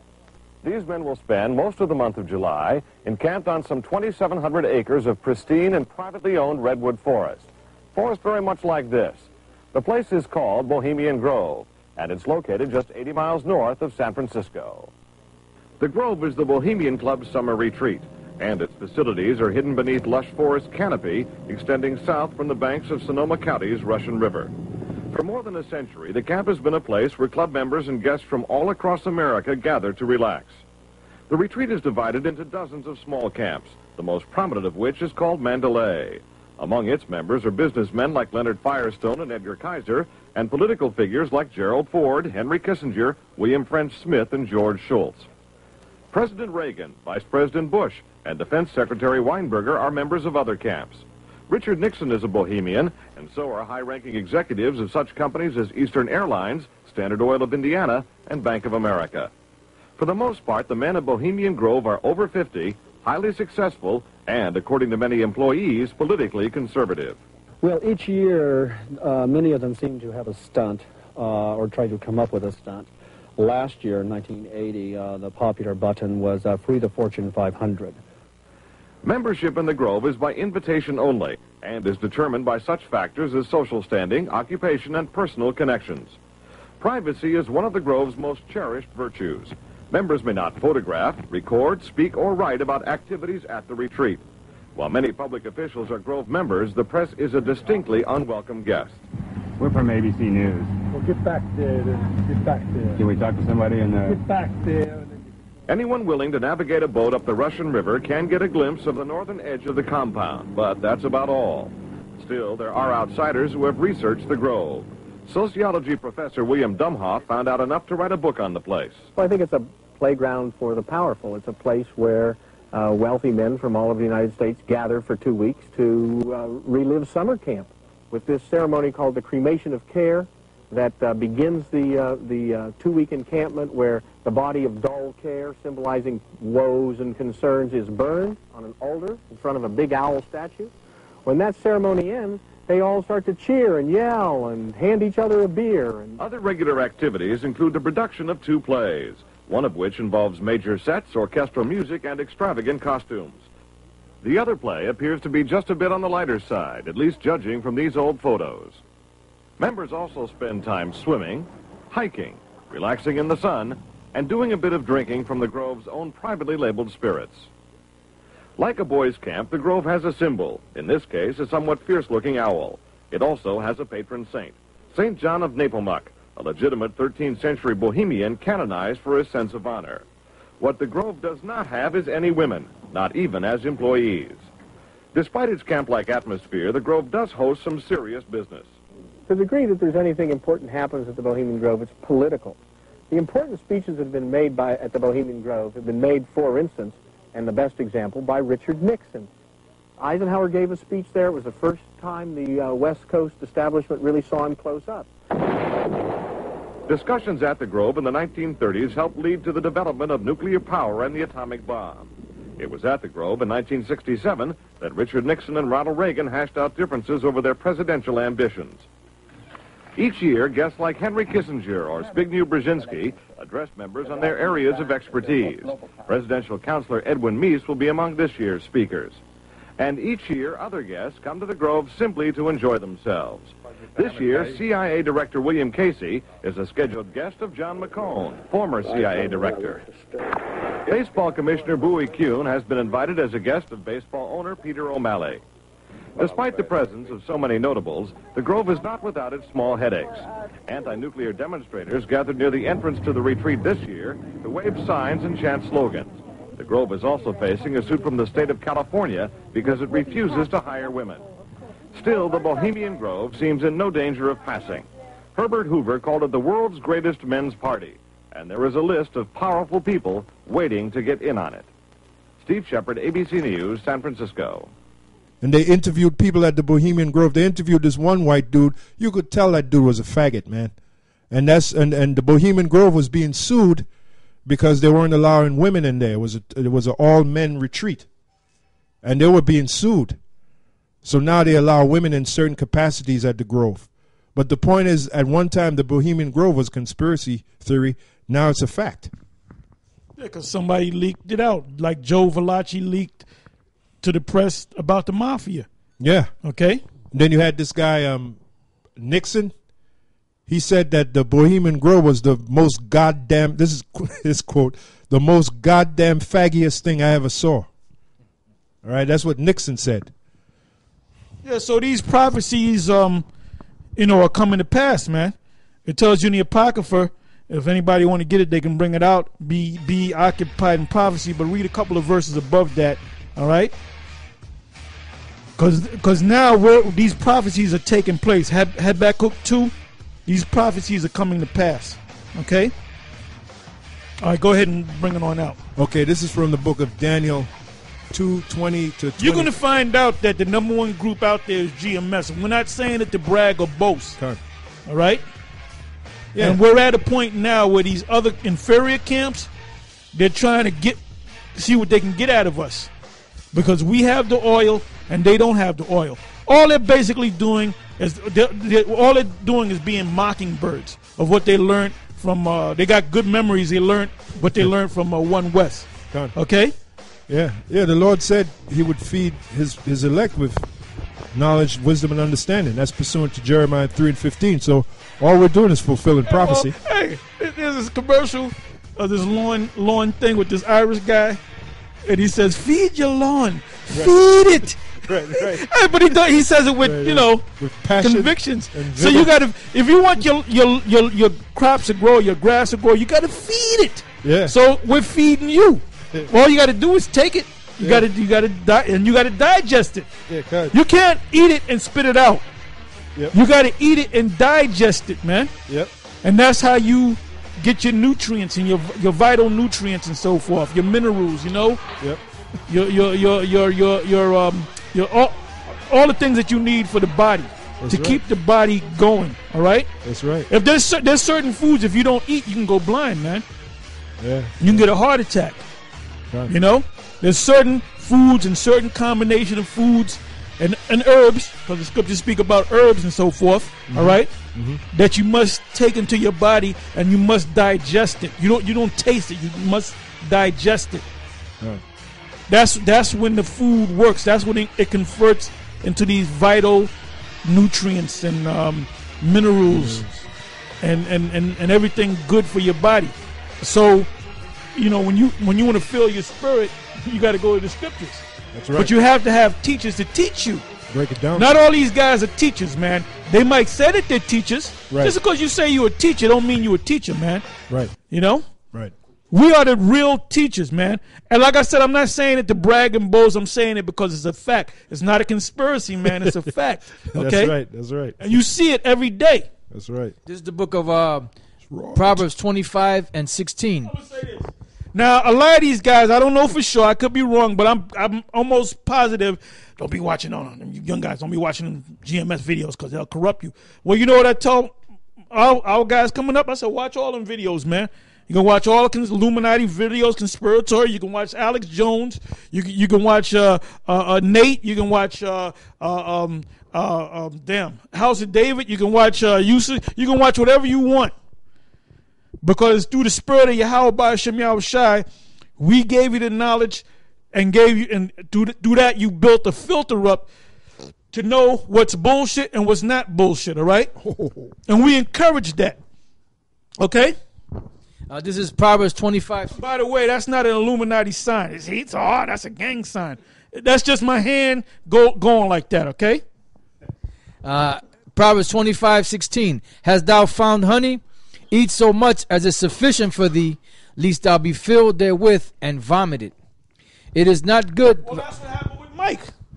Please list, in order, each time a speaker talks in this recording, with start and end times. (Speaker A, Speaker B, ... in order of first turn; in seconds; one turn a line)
Speaker A: 0.6-14.9
Speaker A: 15.8-24.5
Speaker A: 25.1-30.6
Speaker A: 31.3-45.3
Speaker A: 46.1-59.3
Speaker A: 60.0-67.2
Speaker B: 67.6-78.0
Speaker A: 79.0-86.2
Speaker A: 86.8-94.2
Speaker A: 94.8-99.0
Speaker C: 99.6-100.7
Speaker D: 100.9-103.0
Speaker C: 103.0-104.1
Speaker D: 104.0-105.2
Speaker A: 105.7-119.0
Speaker E: 119.2-140.7
Speaker E: 141.2-146.1
Speaker A: 146.2-153.4
Speaker A: 154.2-158.8
Speaker A: 159.6-167.5
Speaker A: 168.6-180.0
Speaker A: 180.6-184.4
Speaker A: 185.1-188.7
Speaker E: 189.3-192.6
Speaker E: 193.1-199.3
Speaker E: 200.0-205.1
Speaker A: 206.9-218.9
Speaker A: 220.0-229.2
Speaker A: 229.8-239.8
Speaker B: 238.9-240.3
Speaker A: 240.8-245.4
Speaker A: 246.2-261.2
Speaker A: 261.9-271.7
Speaker A: 272.4-274.7
Speaker F: 275.4-280.7
Speaker F: 281.3-283.9
Speaker F: 284.4-288.1
Speaker F: 289.0-290.2
Speaker F: 291.0-299.1
Speaker G: 300.2-303.2
Speaker G: 304.0-305.6
Speaker F: 306.0-306.3
Speaker G: 306.4-306.8
Speaker F: 307.1-308.4
Speaker F: 309.0-309.5
Speaker F: 310.5-317.7
Speaker F: 318.8-320.1
Speaker G: 321.4-323.2
Speaker G: 324.0-325.3
Speaker G: 325.9-333.7
Speaker G: 335.6-339.7
Speaker G: 340.2-342.7
Speaker G: 344.2-345.6
Speaker F: 345.8-347.5
Speaker F: 348.1-349.5
Speaker G: 349.2-354.2
Speaker G: 354.9-355.2
Speaker F: 356.3-356.6
Speaker G: 356.4-359.5
Speaker G: 360.1-361.0
Speaker G: 361.5-362.9
Speaker G: 363.5-376.7
Speaker F: 376.1-376.3
Speaker F: 377.3-380.7
Speaker F: 381.3-386.7
Speaker G: 386.2-391.4
Speaker G: 392.1-410.1
Speaker F: 393.9-395.6
Speaker F: 396.8-399.3
Speaker F: 404.2-404.5
Speaker F: 410.3-410.7
Speaker G: 410.7-412.4
Speaker G: 413.3-415.5
Speaker G: 416.2-421.8
Speaker G: 422.7-429.9
Speaker F: 427.8-428.2
Speaker F: 430.0-430.5
Speaker G: 430.5-433.4
Speaker F: 434.2-434.8
Speaker G: 434.6-435.6
Speaker G: 436.5-444.3
Speaker F: 443.9-444.8
Speaker G: 444.9-451.0
Speaker G: 452.5-456.9
Speaker G: 457.4-460.1
Speaker F: 459.7-460.2
Speaker G: 460.8-464.1
Speaker G: 464.7-470.7
Speaker F: 468.5-468.9
Speaker F: 470.9-471.6
Speaker G: 471.3-477.4
Speaker F: 474.9-475.1
Speaker F: 477.7-477.9
Speaker G: 478.1-478.4
Speaker G: 479.3-487.6
Speaker F: 487.1-488.4
Speaker G: 488.2-489.5
Speaker F: 489.7-490.1
Speaker H: 490.2-491.3
Speaker F: 491.7-492.2
Speaker H: 491.9-493.9
Speaker G: 493.8-504.7
Speaker G: 505.3-521.1
Speaker G: 522.4-525.0
Speaker G: 525.6-530.3
Speaker G: 531.1-533.9
Speaker F: 534.0-534.5
Speaker G: 534.6-535.8
Speaker G: 536.8-537.1
Speaker H: 538.1-539.5
Speaker G: 539.5-546.2
Speaker H: 547.4-556.3
Speaker H: 557.1-558.2
Speaker G: 558.0-559.3